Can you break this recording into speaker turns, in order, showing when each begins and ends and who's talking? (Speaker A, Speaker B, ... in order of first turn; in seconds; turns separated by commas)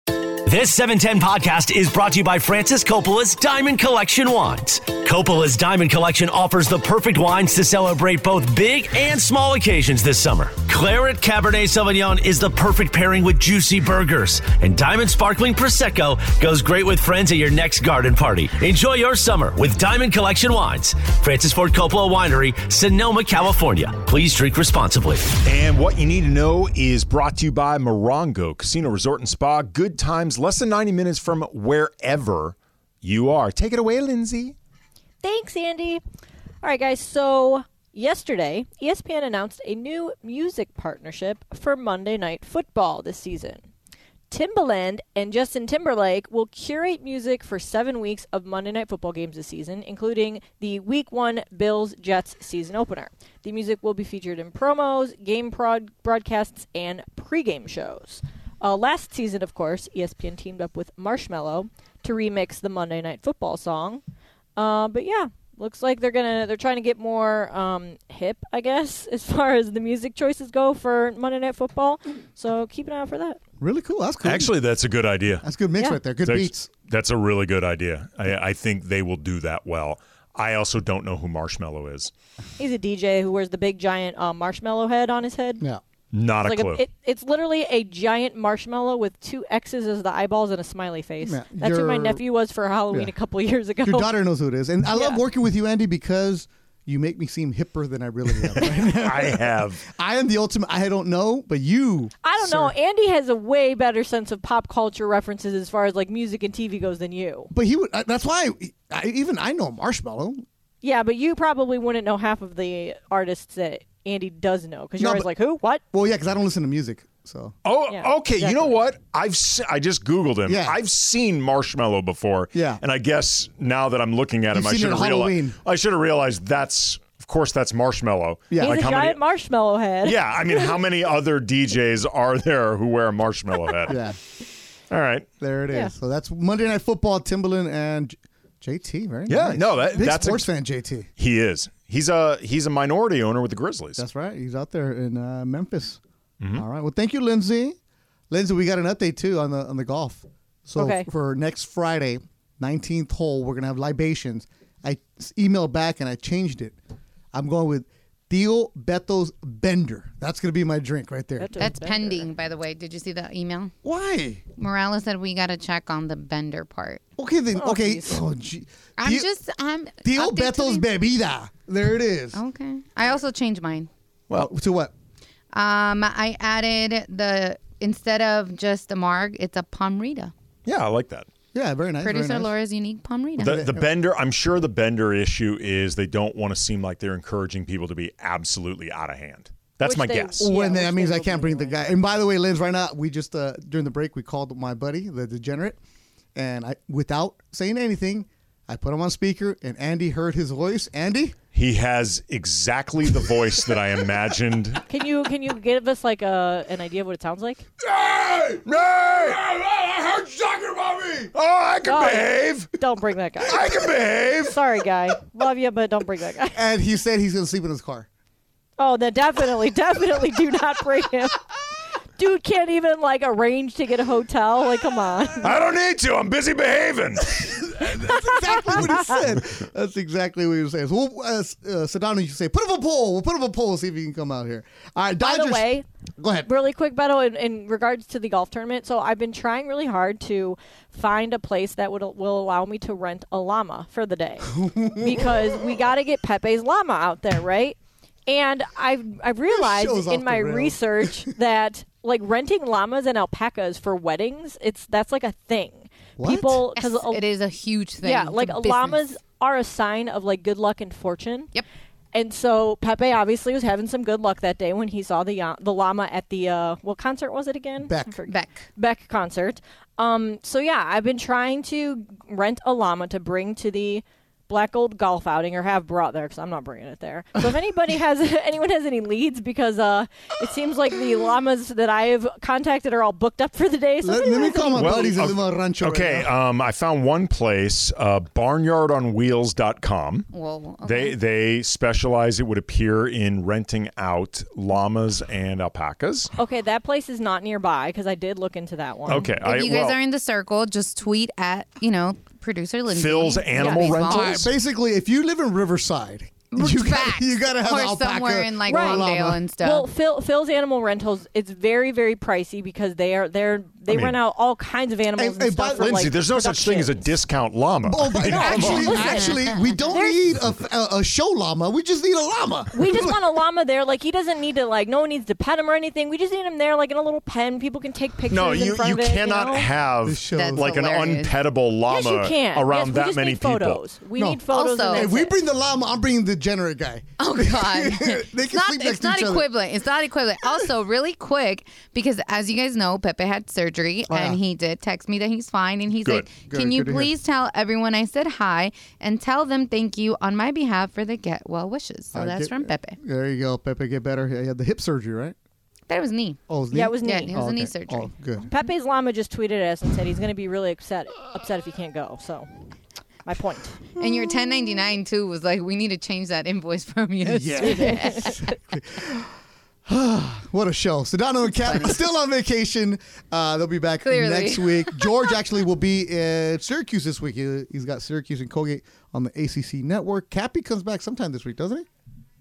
Speaker A: 0.1-25.3, Speaker B: 25.4-34.5, Speaker C: 35.2-36.0, Speaker C: 36.6-43.6, Speaker C: 44.3-64.0, Speaker C: 64.5-73.4, Speaker D: 73.6-74.5, Speaker B: 74.2-75.5, Speaker D: 75.4-76.7, Speaker B: 76.2-82.1, Speaker C: 82.6-85.6, Speaker B: 86.1-86.8, Speaker C: 86.4-94.1, Speaker D: 91.2-92.2, Speaker D: 93.8-102.7, Speaker C: 94.9-95.2, Speaker B: 98.5-99.8, Speaker C: 102.2-107.5, Speaker D: 107.5-110.4, Speaker C: 110.8-115.8, Speaker D: 115.0-115.3, Speaker D: 115.9-117.5, Speaker B: 117.6-129.2, Speaker C: 117.9-118.8, Speaker D: 120.5-120.8, Speaker D: 122.5-122.8, Speaker D: 124.5-125.6, Speaker D: 128.5-128.8, Speaker C: 128.6-130.7, Speaker B: 130.0-134.0, Speaker D: 133.9-134.2, Speaker B: 134.9-135.3, Speaker D: 135.4-141.1, Speaker B: 139.3-140.5, Speaker B: 141.2-144.0, Speaker D: 144.0-146.0, Speaker D: 146.5-147.8, Speaker D: 148.3-156.8, Speaker C: 150.8-151.1, Speaker D: 157.3-161.6, Speaker C: 161.4-162.3, Speaker E: 161.6-163.7, Speaker D: 163.8-164.4, Speaker E: 164.6-167.0, Speaker D: 167.2-169.3, Speaker C: 167.5-168.2, Speaker E: 169.0-170.8, Speaker D: 170.0-172.4, Speaker E: 172.3-173.9, Speaker D: 174.3-174.9, Speaker E: 175.5-180.3, Speaker B: 180.7-181.3, Speaker D: 181.5-182.5, Speaker E: 182.0-183.6, Speaker D: 183.4-183.8, Speaker B: 183.4-190.5, Speaker C: 189.8-191.8, Speaker D: 190.4-195.8, Speaker D: 196.3-201.3, Speaker B: 201.5-204.8, Speaker C: 204.9-207.6, Speaker B: 207.9-210.7, Speaker D: 208.3-211.3, Speaker B: 211.3-212.7, Speaker C: 211.8-213.6, Speaker B: 213.5-214.6, Speaker C: 214.5-216.6, Speaker D: 216.5-218.1, Speaker C: 218.8-221.4, Speaker C: 222.2-225.5, Speaker B: 225.4-227.8, Speaker D: 227.7-235.7, Speaker C: 228.0-229.2, Speaker C: 235.2-235.8, Speaker D: 236.2-236.5, Speaker C: 236.4-257.2, Speaker D: 244.5-245.6, Speaker D: 249.5-251.3, Speaker D: 256.2-256.6, Speaker E: 256.8-259.0, Speaker C: 258.0-261.5, Speaker C: 262.1-285.2, Speaker D: 267.8-268.2, Speaker E: 268.3-268.7, Speaker D: 284.0-286.3, Speaker B: 284.8-290.3, Speaker E: 290.3-291.1, Speaker B: 290.8-296.3, Speaker C: 296.4-299.3, Speaker B: 299.1-300.0, Speaker E: 299.4-304.4, Speaker B: 302.9-304.5, Speaker C: 303.6-304.1, Speaker D: 304.1-309.4, Speaker E: 306.5-309.9, Speaker C: 308.6-309.1, Speaker C: 309.6-316.9, Speaker B: 313.9-314.2, Speaker D: 315.1-316.1, Speaker B: 315.8-318.9, Speaker D: 317.9-323.2, Speaker E: 318.4-319.5, Speaker C: 318.4-320.2, Speaker C: 322.7-329.7, Speaker B: 328.3-333.8, Speaker D: 330.0-330.7, Speaker E: 330.3-331.3, Speaker C: 331.9-335.3, Speaker D: 334.2-339.5, Speaker E: 334.5-335.1, Speaker E: 337.2-353.0, Speaker D: 344.1-344.4, Speaker B: 346.0-346.3, Speaker D: 346.5-347.1, Speaker D: 352.1-355.4, Speaker E: 355.9-356.4, Speaker D: 356.5-358.5, Speaker C: 356.7-357.3, Speaker E: 357.0-358.1, Speaker C: 358.5-362.5, Speaker C: 363.2-363.8, Speaker D: 364.0-364.8, Speaker E: 364.0-368.5, Speaker D: 367.2-381.9, Speaker C: 367.6-368.3, Speaker E: 374.0-375.3